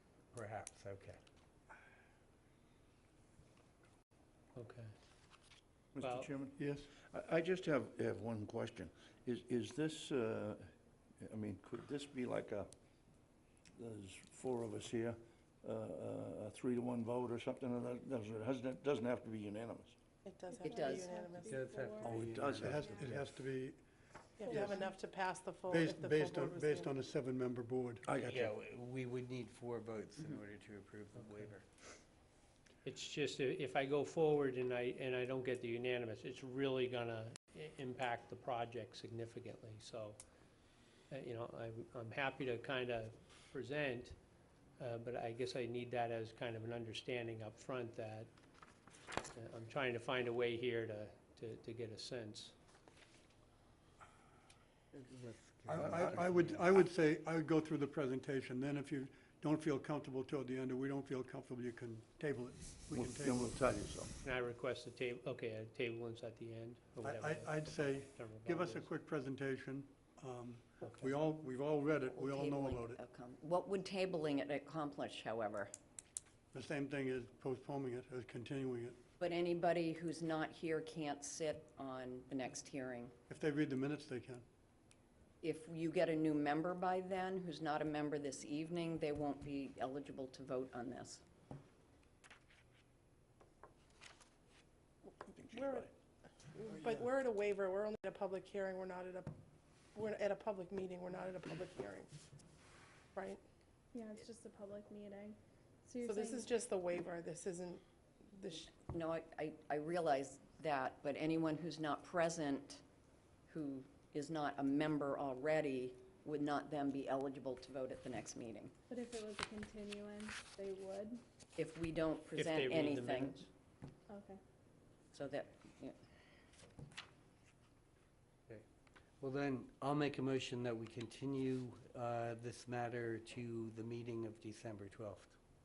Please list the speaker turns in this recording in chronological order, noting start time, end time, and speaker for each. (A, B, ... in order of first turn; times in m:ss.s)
0:00.3-0:01.2 A
0:04.6-0:04.9 B
0:05.9-0:12.7 C
0:06.0-0:06.3 B
0:06.6-0:06.9 D
0:13.8-0:20.0 C
0:20.2-0:21.4 E
0:20.5-0:22.1 F
0:20.6-0:21.0 G
0:21.3-0:22.8 A
0:22.0-0:22.8 C
0:22.5-0:23.8 D
0:22.8-0:23.1 F
0:24.4-0:26.9 E
0:24.4-0:24.9 F
0:24.5-0:24.8 D
0:25.7-0:28.1 D
0:28.1-0:31.6 A
0:28.1-0:28.5 C
0:31.1-0:31.6 B
0:32.8-0:40.2 B
0:41.1-0:44.2 B
0:44.8-0:48.3 B
0:49.3-0:52.5 B
0:54.9-0:56.7 A
0:55.7-1:03.6 D
0:55.7-0:56.1 C
1:02.9-1:04.1 C
1:04.2-1:08.9 B
1:07.0-1:13.0 D
1:10.8-1:11.2 B
1:12.1-1:15.7 G
1:16.5-1:19.0 D
1:19.2-1:23.1 G
1:23.3-1:24.4 D
1:25.4-1:31.2 G
1:35.3-1:35.9 C
1:35.5-1:35.8 E
1:36.6-1:39.3 E
1:36.8-1:37.0 D
1:39.9-1:42.1 E
1:43.1-1:43.4 E
1:43.9-1:46.5 F
1:46.0-1:47.8 E
1:48.3-1:48.7 E
1:48.7-1:52.8 G
1:53.5-1:58.7 G
1:58.9-2:01.2 F
2:01.6-2:03.4 G
2:02.4-2:03.5 B
2:04.1-2:04.4 F
2:05.1-2:06.0 G
2:09.2-2:15.3 A